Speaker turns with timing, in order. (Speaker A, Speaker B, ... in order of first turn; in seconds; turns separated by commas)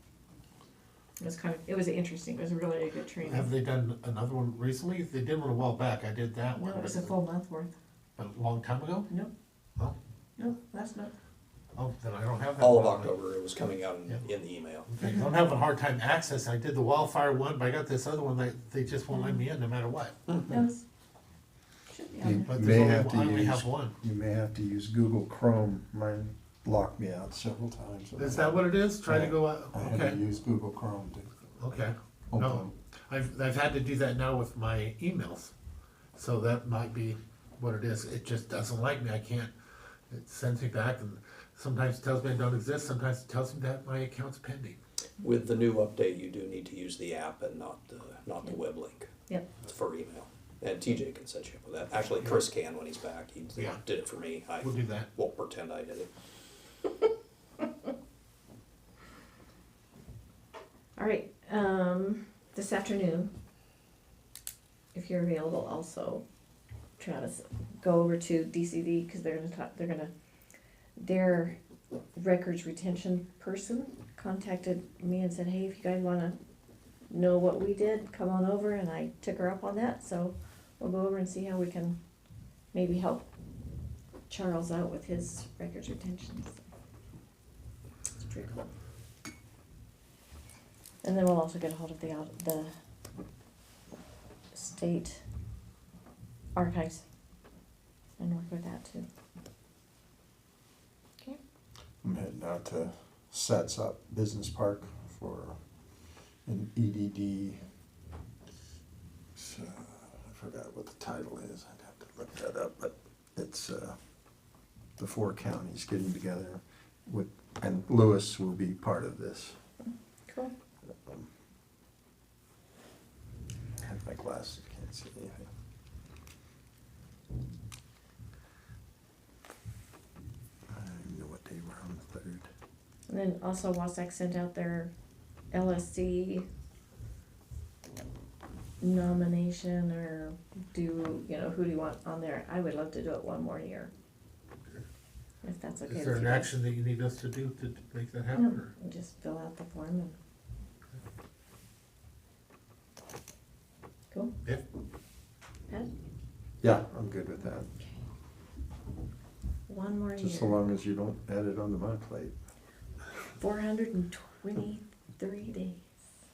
Speaker A: 1.2-3.5, Speaker B: 3.2-7.2, Speaker A: 6.6-7.7, Speaker B: 8.2-9.1, Speaker A: 10.4-11.1, Speaker B: 11.8-13.2, Speaker C: 12.6-14.9, Speaker B: 14.9-20.1, Speaker A: 15.0-15.3, Speaker A: 19.1-19.4, Speaker C: 20.3-20.6, Speaker A: 20.5-20.8, Speaker A: 21.9-22.5, Speaker D: 22.2-31.3, Speaker B: 22.5-23.9, Speaker B: 28.2-30.2, Speaker B: 31.6-35.5, Speaker D: 32.3-32.7, Speaker B: 36.2-39.5, Speaker B: 40.1-44.8, Speaker C: 45.2-49.1, Speaker C: 49.6-56.1, Speaker B: 54.6-55.1, Speaker A: 61.0-63.3, Speaker A: 64.9-66.2, Speaker A: 67.0-70.1, Speaker A: 71.0-71.6, Speaker A: 72.2-76.4, Speaker A: 77.1-82.0, Speaker A: 82.7-83.3, Speaker A: 84.3-86.6, Speaker A: 88.2-88.7, Speaker A: 91.0-92.7, Speaker A: 94.5-95.2, Speaker A: 96.5-97.0, Speaker A: 98.2-99.1, Speaker D: 102.0-105.6, Speaker D: 106.5-107.6, Speaker D: 109.3-114.0, Speaker D: 115.0-119.6, Speaker A: 120.3-120.5, Speaker D: 120.9-121.3, Speaker D: 123.8-125.5, Speaker D: 130.7-132.5, Speaker A: 133.1-134.9, Speaker A: 135.5-136.5, Speaker A: 138.8-143.9, Speaker A: 145.4-146.5, Speaker B: 145.9-148.7, Speaker A: 148.3-150.2, Speaker D: 156.6-157.7, Speaker A: 159.7-160.6, Speaker D: 160.2-162.3, Speaker A: 163.4-165.8